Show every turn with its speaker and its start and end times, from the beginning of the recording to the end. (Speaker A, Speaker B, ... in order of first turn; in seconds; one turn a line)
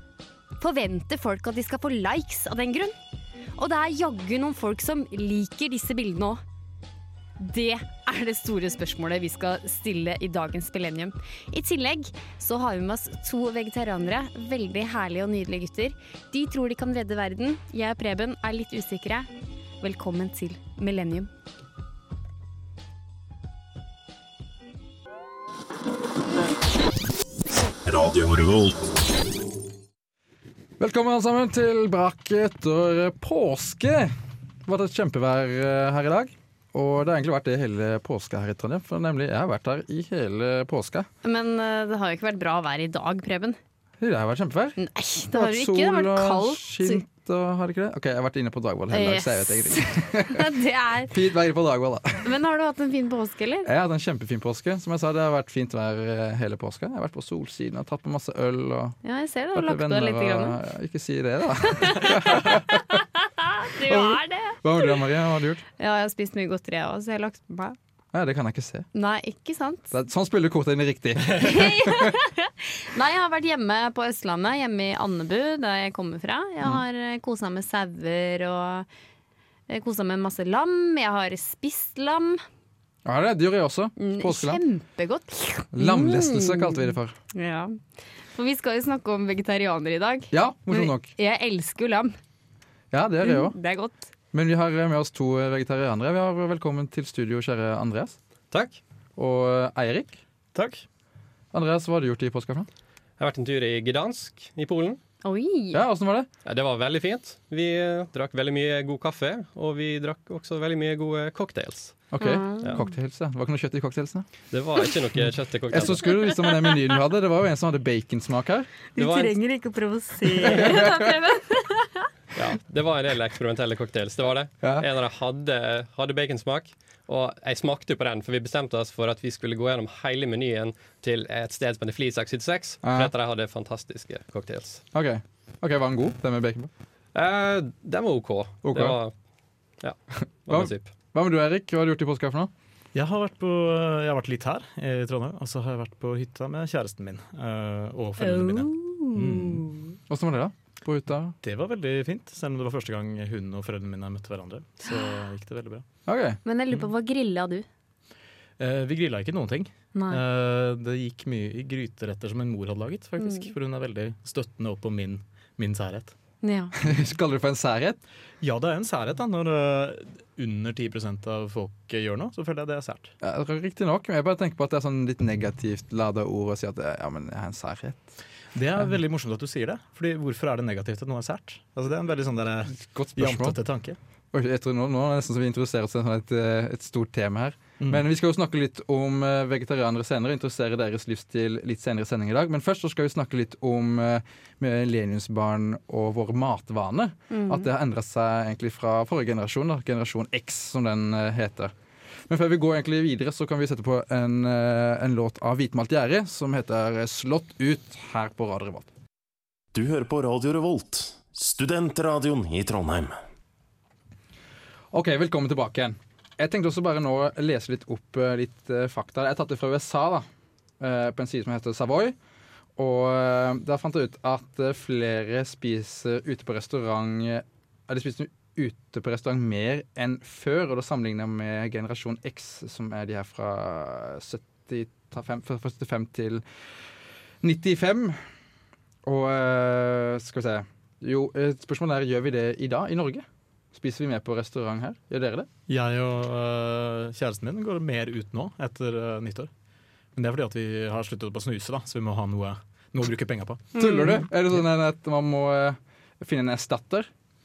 Speaker A: 0.6-3.0
Speaker A: 3.6-6.4
Speaker A: 7.4-19.3
Speaker A: 19.8-21.3
Speaker B: 27.9-28.9
Speaker C: 30.8-34.1
Speaker C: 34.6-41.1
Speaker A: 41.2-43.6
Speaker C: 44.0-44.8
Speaker A: 44.8-47.0
Speaker C: 45.3-50.5
Speaker A: 48.9-51.1
Speaker C: 51.1-52.3
Speaker A: 52.2-53.7
Speaker C: 53.6-59.0
Speaker A: 59.0-60.5
Speaker C: 59.5-62.7
Speaker A: 61.7-64.9
Speaker C: 63.8-65.6
Speaker A: 65.8-67.8
Speaker C: 68.1-68.9
Speaker A: 68.9-69.9
Speaker C: 69.9-72.1
Speaker A: 71.4-78.9
Speaker A: 79.7-82.4
Speaker C: 83.0-84.6
Speaker A: 84.0-92.1
Speaker C: 85.7-87.2
Speaker C: 90.3-91.1
Speaker C: 92.9-93.5
Speaker A: 93.2-94.1
Speaker C: 94.3-98.2
Speaker D: 98.5-98.8
Speaker C: 99.2-100.2
Speaker E: 100.5-100.8
Speaker C: 101.5-102.7
Speaker D: 103.2-105.0
Speaker A: 105.2-105.8
Speaker C: 105.7-106.3
Speaker D: 106.4-112.8
Speaker C: 112.1-114.3
Speaker A: 112.2-112.8
Speaker D: 114.5-116.2
Speaker C: 115.2-118.7
Speaker A: 118.9-122.1
Speaker D: 119.0-119.3
Speaker C: 120.5-121.1
Speaker D: 122.3-134.8
Speaker C: 132.8-133.1
Speaker C: 134.9-136.7
Speaker D: 137.1-139.2
Speaker C: 138.6-139.0
Speaker D: 139.8-140.9
Speaker C: 140.5-142.5
Speaker E: 142.9-149.7
Speaker A: 148.2-149.9
Speaker C: 150.1-151.4
Speaker E: 151.4-155.8
Speaker A: 154.8-155.2
Speaker C: 156.1-156.4
Speaker A: 156.4-157.7
Speaker E: 158.6-166.1
Speaker A: 159.9-160.2
Speaker A: 163.2-163.5
Speaker A: 166.4-166.7
Speaker C: 166.8-168.0
Speaker E: 168.4-173.1
Speaker C: 173.2-178.2
Speaker E: 178.5-184.0
Speaker C: 182.7-183.6
Speaker C: 184.3-201.7
Speaker A: 197.3-197.7
Speaker C: 202.3-208.9
Speaker B: 209.7-213.2
Speaker C: 214.9-220.3
Speaker C: 220.8-222.2
Speaker C: 222.8-236.5
Speaker C: 237.4-238.2
Speaker C: 239.0-245.5
Speaker E: 245.7-249.5
Speaker E: 250.1-253.8
Speaker A: 253.8-254.2
Speaker C: 253.8-257.1